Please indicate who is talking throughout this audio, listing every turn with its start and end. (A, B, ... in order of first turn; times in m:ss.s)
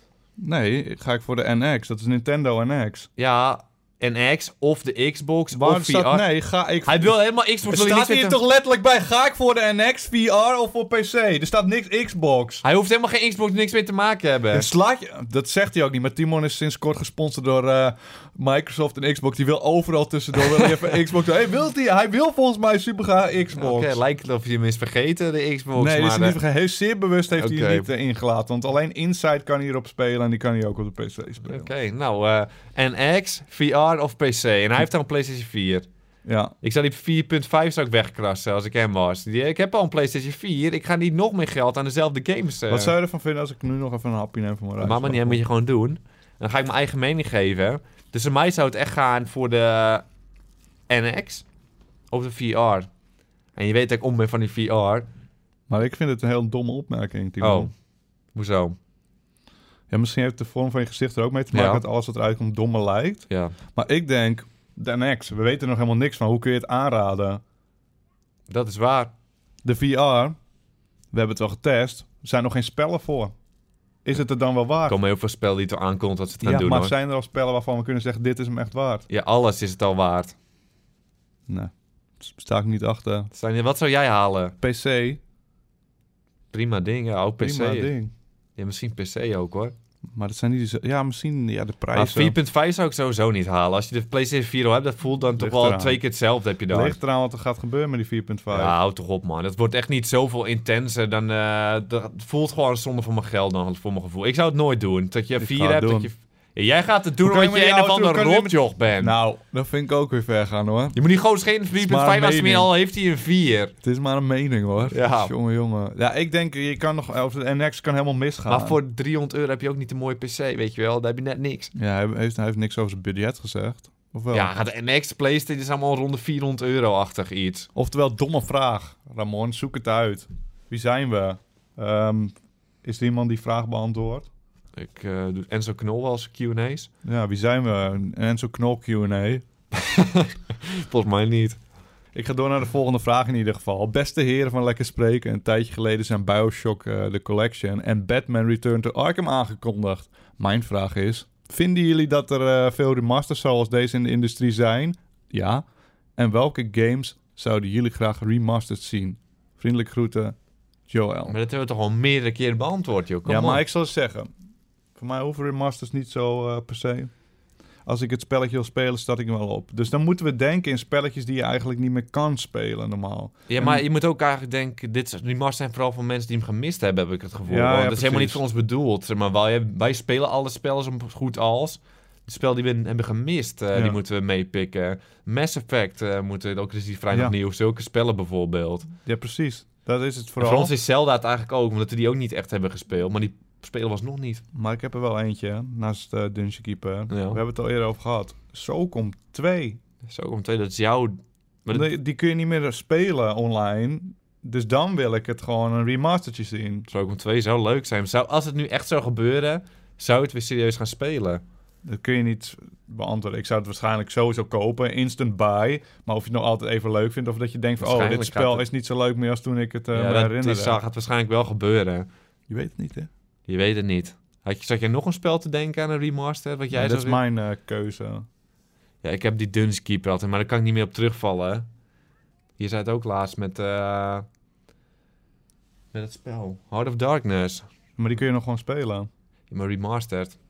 0:00.4-0:03.1 A
0:03.2-0:06.2 B
0:05.5-0:07.1 A
0:06.9-0:08.4 B
0:07.7-0:12.6 A
0:12.6-0:14.7 B
0:14.5-0:24.0 A
0:20.4-0:20.8 B
0:23.6-0:26.4 B
0:25.8-0:31.7 A
0:27.4-0:27.9 B
0:31.5-0:35.9 B
0:36.2-0:36.6 A
0:36.6-0:43.0 B
0:42.7-0:45.4 A
0:44.8-0:50.0 B
0:50.9-0:51.4 B
0:52.1-0:52.9 B
0:53.6-0:55.1 B
0:55.7-0:57.7 A
0:57.4-0:57.7 B
0:58.4-0:58.8 B
0:59.9-1:07.4 A
1:01.5-1:01.8 B
1:08.5-1:09.1 B
1:09.6-1:10.4 A
1:11.1-1:13.3 A
1:14.0-1:15.0 A
1:14.9-1:16.9 B
1:16.4-1:19.1 A
1:19.1-1:20.4 B
1:21.5-1:23.3 A
1:23.3-1:24.6 B
1:24.6-1:25.2 A
1:26.5-1:28.0 B
1:27.4-1:28.1 A
1:28.6-1:29.8 B
1:30.2-1:32.4 A
1:31.9-1:37.0 B
1:35.4-1:36.0 A
1:36.7-1:38.8 A
1:38.5-1:49.2 B
1:45.4-1:46.1 A
1:47.2-1:51.0 A
1:51.0-1:53.7 B
1:51.7-1:52.7 A
1:53.8-1:58.8 A
1:54.9-1:55.3 B
1:58.5-2:01.7 B
2:01.8-2:04.5 A
2:04.3-2:07.7 B
2:07.8-2:14.3 A
2:14.8-2:16.9 B
2:17.0-2:19.5 A
2:19.8-2:21.6 B
2:22.1-2:35.6 A
2:36.2-2:40.4 A
2:40.9-2:41.4 A
2:41.3-2:43.6 B
2:43.3-2:44.3 A
2:45.0-2:47.1 A
2:47.9-2:53.8 A
2:53.5-3:08.9 B
2:57.5-2:58.4 A
3:03.7-3:04.0 A
3:08.9-3:10.7 A
3:10.4-3:14.4 B
3:14.5-3:19.8 A
3:17.1-3:17.4 B
3:20.0-3:21.9 B
3:21.7-3:26.9 A
3:26.9-3:31.4 B
3:31.8-3:40.8 A
3:37.8-3:38.7 B
3:39.9-3:42.1 B
3:42.5-3:43.1 A
3:43.5-3:47.2 B
3:46.7-3:48.3 A
3:49.0-3:51.7 B
3:52.6-3:54.3 B
3:55.9-3:57.6 B
3:58.0-3:59.1 A
3:59.5-4:00.4 B